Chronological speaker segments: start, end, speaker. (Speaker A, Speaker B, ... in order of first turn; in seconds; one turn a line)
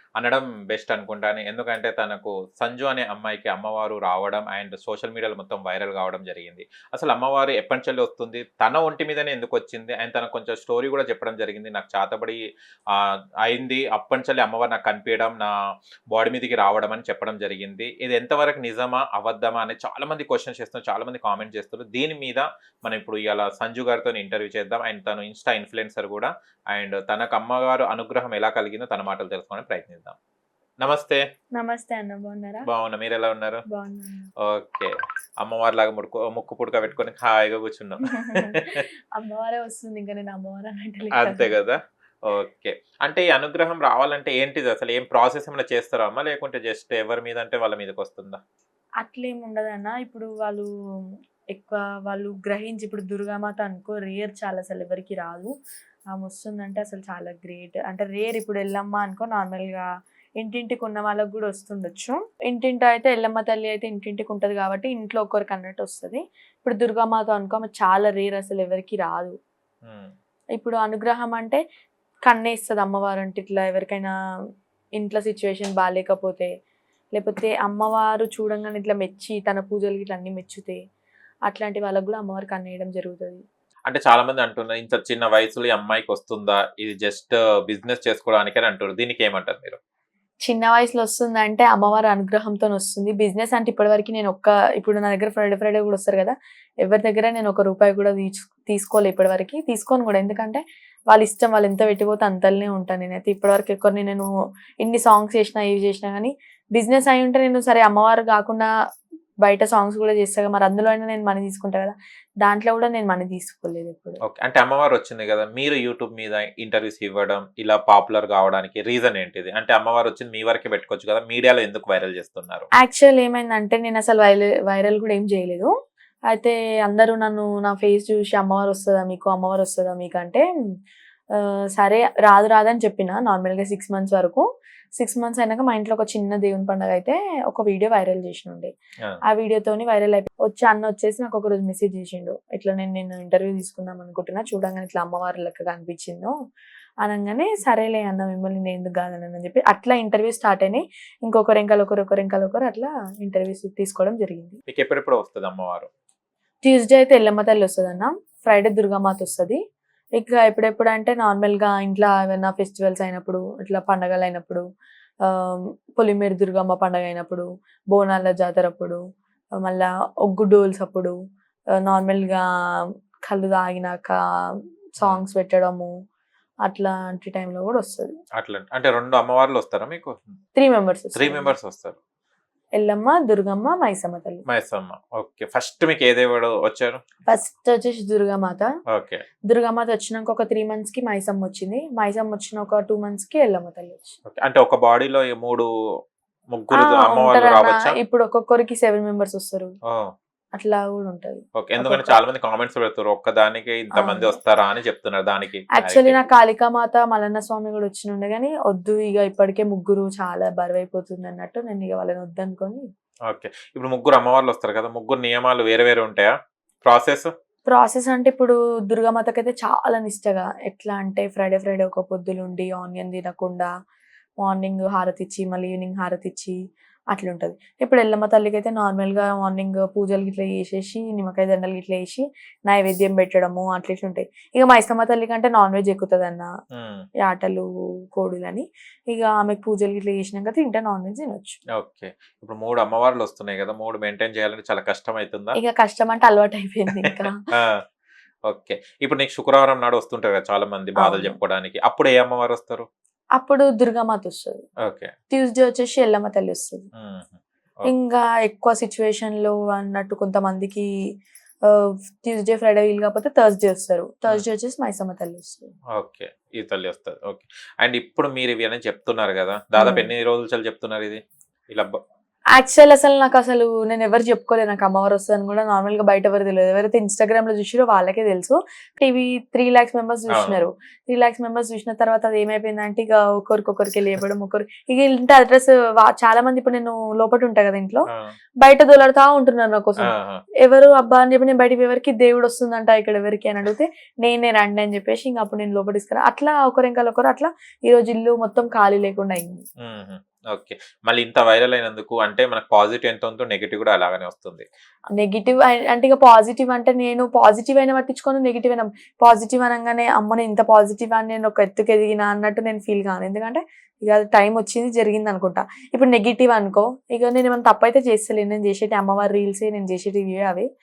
Speaker A: 0.2-12.4
Speaker A: 12.9-15.5
Speaker A: 16.1-30.2
Speaker A: 30.8-31.2
Speaker B: 31.6-32.7
Speaker A: 32.7-33.6
Speaker B: 33.7-34.3
Speaker A: 34.4-38.8
Speaker B: 38.1-41.5
Speaker A: 41.1-48.4
Speaker B: 49.0-50.7
Speaker B: 51.5-55.5
Speaker B: 56.1-59.9
Speaker B: 60.4-69.3
Speaker A: 69.8-70.1
Speaker B: 70.6-71.6
Speaker B: 72.3-74.1
Speaker B: 75.0-76.5
Speaker B: 77.2-80.8
Speaker B: 81.5-83.4
Speaker A: 83.9-89.8
Speaker B: 90.5-104.3
Speaker B: 104.8-108.7
Speaker B: 109.4-114.2
Speaker A: 114.3-122.7
Speaker B: 122.8-125.7
Speaker B: 126.3-130.4
Speaker B: 131.4-134.4
Speaker B: 135.0-138.7
Speaker B: 139.3-146.3
Speaker B: 147.1-154.6
Speaker A: 154.7-155.9
Speaker B: 156.6-159.6
Speaker B: 160.2-164.6
Speaker B: 165.3-169.0
Speaker B: 169.6-171.2
Speaker B: 171.8-172.4
Speaker B: 173.3-174.2
Speaker B: 175.0-175.9
Speaker B: 176.7-178.1
Speaker A: 178.4-180.4
Speaker B: 180.6-181.5
Speaker A: 181.2-182.0
Speaker B: 182.8-184.4
Speaker A: 184.5-187.0
Speaker B: 187.3-188.7
Speaker A: 188.9-189.2
Speaker B: 189.5-194.2
Speaker A: 194.3-195.7
Speaker A: 196.5-197.9
Speaker B: 196.8-199.7
Speaker B: 200.6-202.2
Speaker A: 201.6-206.2
Speaker B: 204.0-204.3
Speaker B: 205.8-212.8
Speaker A: 213.3-216.3
Speaker A: 216.8-217.3
Speaker B: 217.7-223.7
Speaker B: 224.4-226.6
Speaker B: 227.1-236.5
Speaker A: 236.7-237.1
Speaker B: 237.2-241.6
Speaker A: 241.8-245.6
Speaker B: 245.6-247.4
Speaker A: 247.6-247.8
Speaker A: 248.5-252.9
Speaker B: 251.0-251.4
Speaker B: 253.4-254.6
Speaker A: 254.9-255.1
Speaker B: 255.3-256.8
Speaker A: 257.0-257.9
Speaker B: 257.9-260.9
Speaker B: 261.7-265.7
Speaker A: 266.0-272.0
Speaker B: 269.8-270.1
Speaker B: 272.6-288.1
Speaker A: 280.3-280.6
Speaker B: 288.6-290.1
Speaker A: 290.1-290.4
Speaker B: 290.6-299.6
Speaker A: 299.8-304.6
Speaker B: 305.2-320.7